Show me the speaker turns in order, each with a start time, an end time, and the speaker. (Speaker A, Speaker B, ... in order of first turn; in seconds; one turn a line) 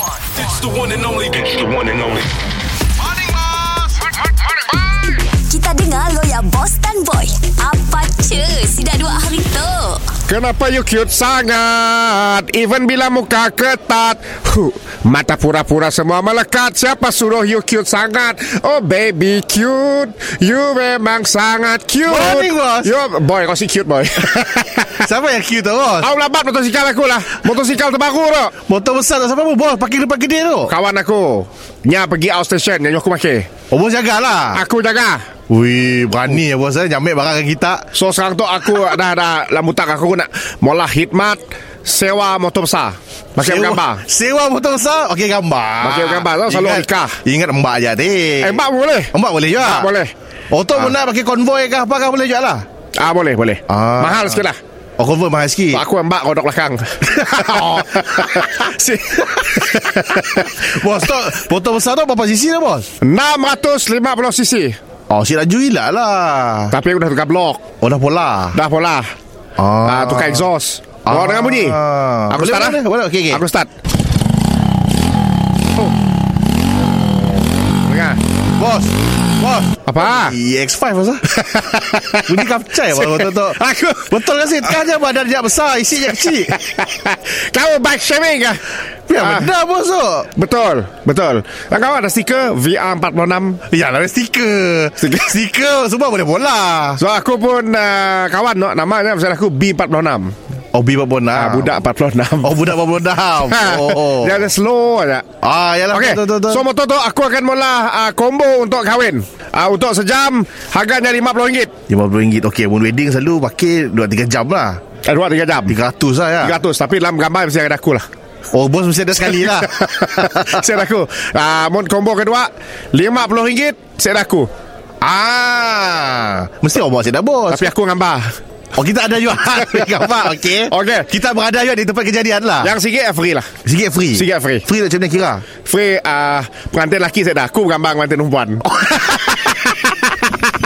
Speaker A: 0.3-2.4
Speaker B: 5.2-10.1
Speaker C: 10.3-25.1
Speaker D: 22.1-22.9
Speaker D: 25.0-26.1
Speaker C: 26.0-28.6
Speaker D: 28.7-30.7
Speaker C: 30.7-33.5
Speaker D: 33.7-34.6
Speaker C: 34.5-35.3
Speaker D: 35.5-37.9
Speaker C: 37.9-44.0
Speaker D: 43.4-49.9
Speaker C: 45.8-47.2
Speaker C: 48.4-50.1
Speaker D: 50.5-52.7
Speaker C: 53.0-54.6
Speaker D: 53.7-54.5
Speaker D: 55.0-55.8
Speaker C: 55.7-60.7
Speaker D: 57.2-58.3
Speaker D: 60.1-62.9
Speaker C: 63.0-64.8
Speaker D: 65.1-66.8
Speaker C: 66.7-67.7
Speaker D: 67.8-68.6
Speaker C: 68.5-69.1
Speaker D: 69.6-70.5
Speaker C: 69.8-73.7
Speaker D: 71.0-73.4
Speaker C: 77.8-78.2
Speaker D: 78.6-81.3
Speaker C: 79.9-80.4
Speaker C: 81.3-84.8
Speaker D: 82.2-86.6
Speaker C: 86.0-88.6
Speaker D: 89.1-90.3
Speaker C: 89.2-89.5
Speaker C: 90.3-93.7
Speaker D: 93.7-97.0
Speaker C: 95.0-95.4
Speaker C: 97.0-100.3
Speaker D: 100.7-101.8
Speaker C: 101.3-102.7
Speaker D: 102.4-104.5
Speaker C: 103.4-105.3
Speaker D: 105.4-106.6
Speaker C: 105.9-111.7
Speaker D: 111.9-114.8
Speaker C: 115.0-115.8
Speaker D: 115.7-116.6
Speaker C: 116.4-118.1
Speaker D: 118.5-120.6
Speaker C: 119.3-124.5
Speaker D: 125.0-127.7
Speaker C: 127.5-128.3
Speaker D: 128.8-132.7
Speaker C: 129.5-131.1
Speaker C: 132.6-133.6
Speaker D: 133.7-135.5
Speaker C: 134.1-134.7
Speaker C: 135.5-140.3